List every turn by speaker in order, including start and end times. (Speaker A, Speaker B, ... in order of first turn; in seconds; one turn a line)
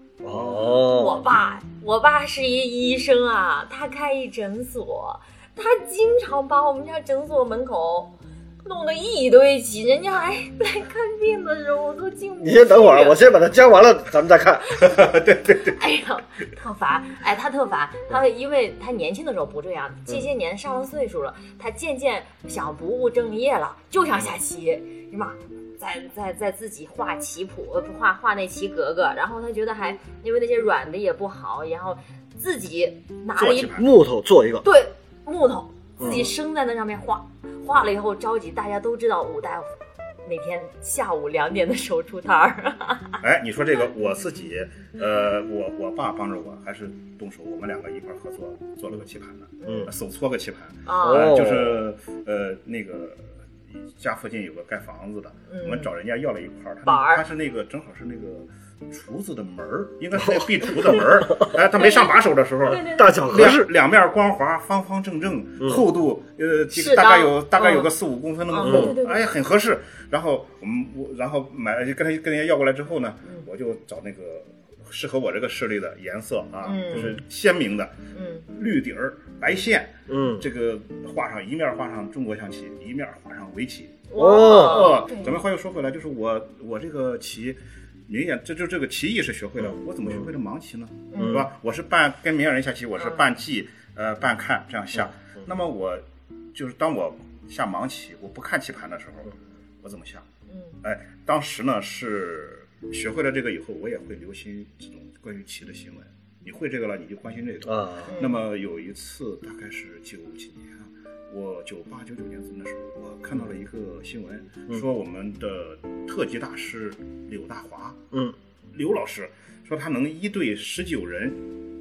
Speaker A: 0.2-1.2
Speaker B: 0.3-0.7
Speaker C: 0.8-13.3
Speaker A: 12.4-15.0
Speaker B: 14.8-15.8
Speaker C: 15.6-33.8
Speaker B: 33.4-33.9
Speaker A: 33.7-34.7
Speaker C: 34.6-43.2
Speaker A: 36.0-36.3
Speaker B: 36.0-36.3
Speaker B: 43.2-53.4
Speaker C: 49.6-49.9
Speaker C: 50.9-51.4
Speaker A: 51.0-51.8
Speaker B: 54.0-100.3
Speaker C: 55.5-55.9
Speaker C: 56.9-57.2
Speaker C: 61.8-62.1
Speaker C: 62.7-63.4
Speaker A: 62.7-63.7
Speaker A: 65.6-65.8
Speaker C: 66.7-67.9
Speaker C: 68.5-69.2
Speaker A: 68.6-69.0
Speaker C: 76.6-77.2
Speaker C: 78.1-78.5
Speaker A: 80.1-80.5
Speaker C: 84.1-85.3
Speaker A: 84.2-85.0
Speaker C: 91.1-91.5
Speaker A: 91.2-91.5
Speaker C: 100.5-100.8
Speaker B: 100.8-118.0
Speaker A: 107.7-108.1
Speaker C: 108.1-108.4
Speaker A: 118.1-118.4
Speaker B: 118.7-121.4